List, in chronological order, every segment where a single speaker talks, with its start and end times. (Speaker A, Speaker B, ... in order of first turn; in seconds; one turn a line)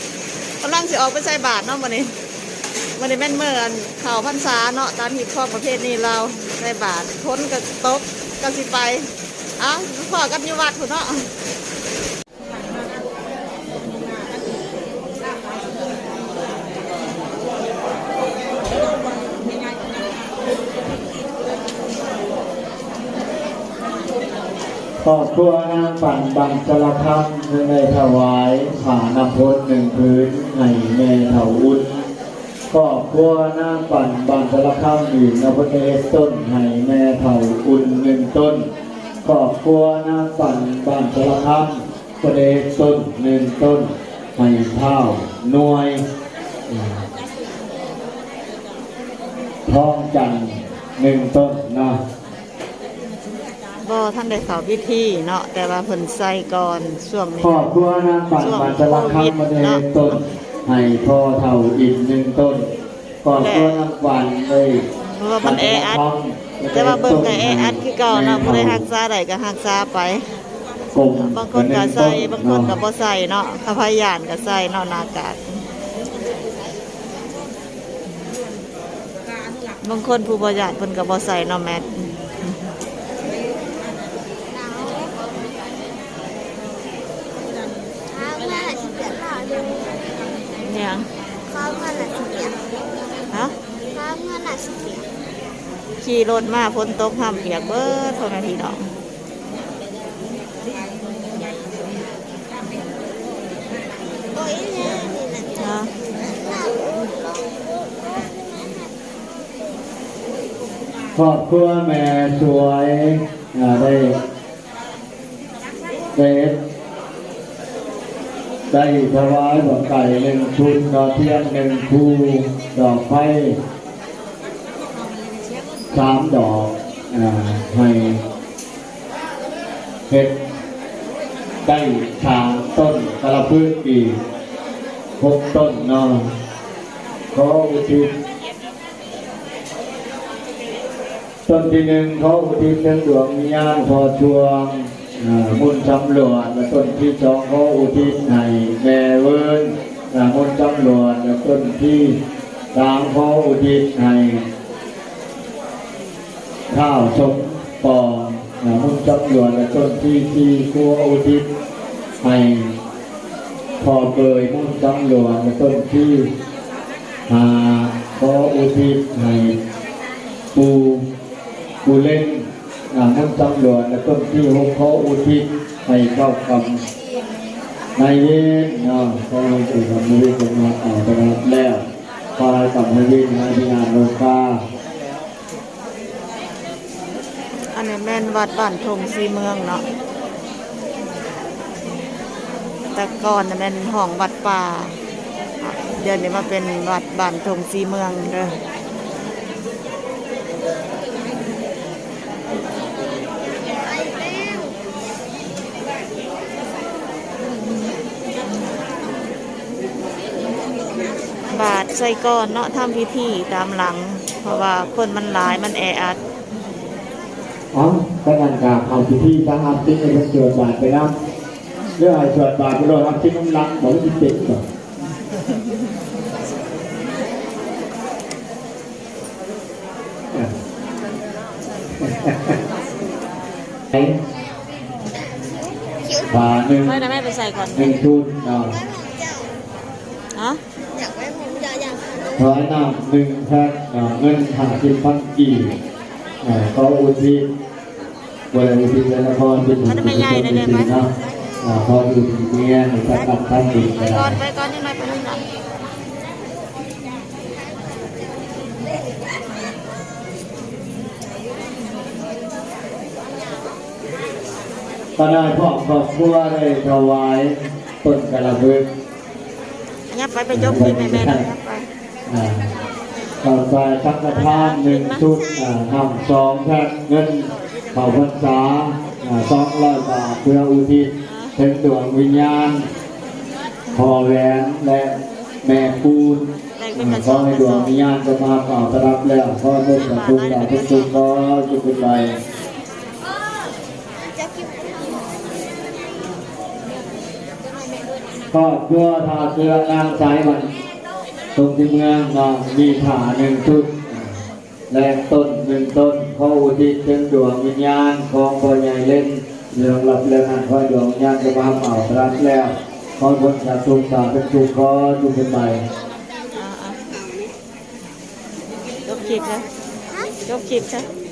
Speaker A: 0.6-2.1
Speaker A: 3.0-11.3
Speaker B: 25.0-31.9
Speaker B: 32.7-38.7
Speaker B: 39.2-46.0
Speaker B: 46.7-47.0
Speaker B: 49.7-52.0
Speaker A: 53.8-57.7
Speaker B: 57.4-62.7
Speaker A: 58.3-60.2
Speaker B: 63.2-64.8
Speaker A: 63.3-63.8
Speaker A: 65.2-66.0
Speaker B: 65.4-68.8
Speaker A: 66.7-70.2
Speaker B: 70.9-72.8
Speaker A: 71.1-75.6
Speaker A: 79.8-82.5
Speaker C: 84.5-85.2
Speaker C: 88.1-90.0
Speaker A: 90.6-91.1
Speaker C: 91.5-92.6
Speaker C: 93.9-95.1
Speaker A: 96.0-98.9
Speaker C: 104.3-108.9
Speaker A: 105.6-105.9
Speaker B: 111.1-114.2
Speaker B: 116.1-116.6
Speaker B: 118.7-123.6
Speaker B: 125.9-128.2
Speaker B: 131.6-134.2
Speaker B: 135.2-136.3
Speaker B: 137.3-138.1
Speaker B: 141.5-152.2
Speaker B: 152.7-154.4
Speaker B: 156.7-161.5
Speaker B: 162.2-162.7
Speaker B: 163.8-166.3
Speaker B: 167.3-169.6
Speaker B: 170.5-171.1
Speaker B: 171.8-176.8
Speaker B: 178.0-181.8
Speaker B: 182.4-184.6
Speaker A: 187.7-189.8
Speaker A: 192.9-195.0
Speaker A: 195.6-198.6
Speaker C: 203.8-204.7
Speaker A: 211.5-216.2
Speaker B: 217.7-221.2
Speaker B: 222.0-224.6
Speaker B: 232.0-232.6
Speaker B: 233.9-234.2
Speaker C: 236.0-236.3
Speaker B: 236.3-237.1
Speaker A: 236.8-237.9
Speaker B: 237.7-238.8
Speaker C: 238.7-239.5
Speaker A: 240.3-240.6
Speaker C: 241.0-242.5
Speaker B: 242.4-245.7
Speaker B: 246.4-247.5
Speaker B: 248.5-251.1
Speaker A: 249.8-251.0
Speaker B: 251.6-254.4
Speaker A: 254.0-255.4
Speaker B: 265.2-268.9
Speaker A: 270.1-271.9
Speaker B: 270.5-271.5
Speaker B: 272.3-272.7
Speaker B: 273.4-282.9
Speaker A: 274.3-275.3
Speaker A: 281.2-281.6
Speaker B: 283.9-292.4
Speaker A: 286.8-287.9
Speaker A: 289.9-291.1
Speaker C: 294.2-295.8
Speaker B: 298.5-300.7
Speaker B: 301.6-304.4
Speaker B: 304.9-315.8
Speaker A: 316.5-317.0
Speaker A: 319.1-319.7
Speaker C: 319.3-320.3
Speaker A: 320.5-321.1